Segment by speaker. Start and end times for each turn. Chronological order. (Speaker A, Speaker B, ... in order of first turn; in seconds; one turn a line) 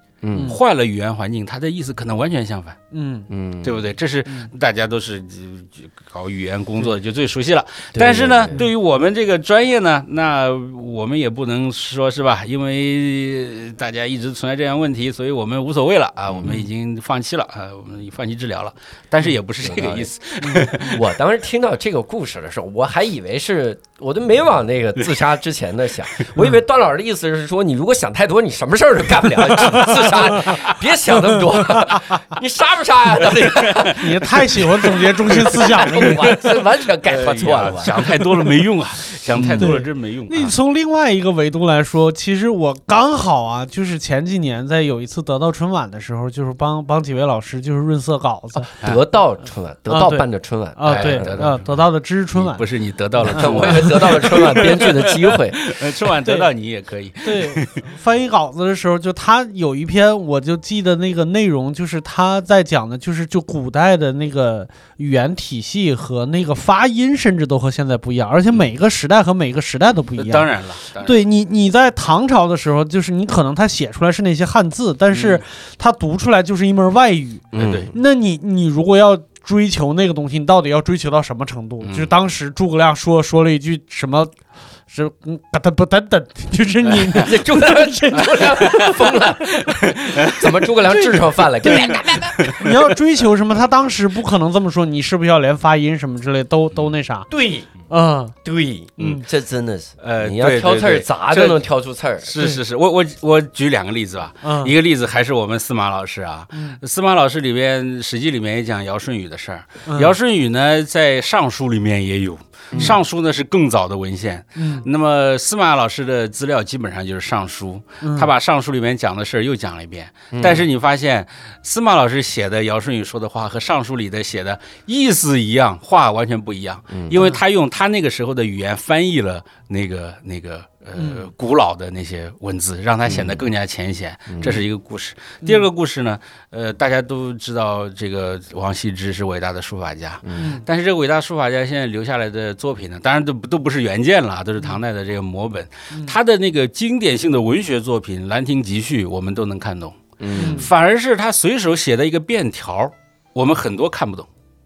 Speaker A: 0.2-0.6
Speaker B: 0.3-0.6
Speaker C: 0.4-2.8
Speaker B: 2.9-3.3
Speaker A: 3.3-3.9
Speaker C: 3.6-21.1
Speaker A: 8.0-8.6
Speaker A: 16.3-16.6
Speaker A: 19.6-34.0
Speaker B: 20.4-20.7
Speaker C: 33.4-34.1
Speaker B: 34.0-36.4
Speaker A: 34.8-38.1
Speaker C: 37.0-40.5
Speaker A: 39.4-39.7
Speaker B: 39.4-48.7
Speaker A: 48.8-51.5
Speaker B: 49.9-52.6
Speaker C: 50.9-51.8
Speaker C: 52.3-57.8
Speaker B: 53.2-54.4
Speaker A: 53.3-55.6
Speaker B: 57.2-84.3
Speaker C: 70.2-71.2
Speaker C: 75.1-75.4
Speaker A: 77.5-77.9
Speaker C: 77.6-77.9
Speaker C: 81.8-82.1
Speaker B: 84.9-89.2
Speaker A: 87.1-92.6
Speaker C: 89.6-90.5
Speaker B: 90.8-97.3
Speaker C: 91.9-92.8
Speaker A: 97.3-97.7
Speaker B: 97.9-98.3
Speaker A: 98.4-102.4
Speaker B: 99.0-99.2
Speaker C: 99.0-99.3
Speaker C: 100.0-101.7
Speaker C: 102.2-154.3
Speaker B: 104.4-104.7
Speaker B: 106.5-106.8
Speaker B: 109.9-110.2
Speaker A: 112.7-113.0
Speaker B: 114.6-114.9
Speaker B: 118.0-118.3
Speaker A: 120.3-120.7
Speaker A: 126.9-127.2
Speaker B: 131.0-131.3
Speaker A: 133.1-133.4
Speaker A: 134.3-134.7
Speaker B: 135.4-135.7
Speaker B: 140.3-140.6
Speaker B: 145.9-146.2
Speaker A: 150.2-150.7
Speaker B: 150.3-150.7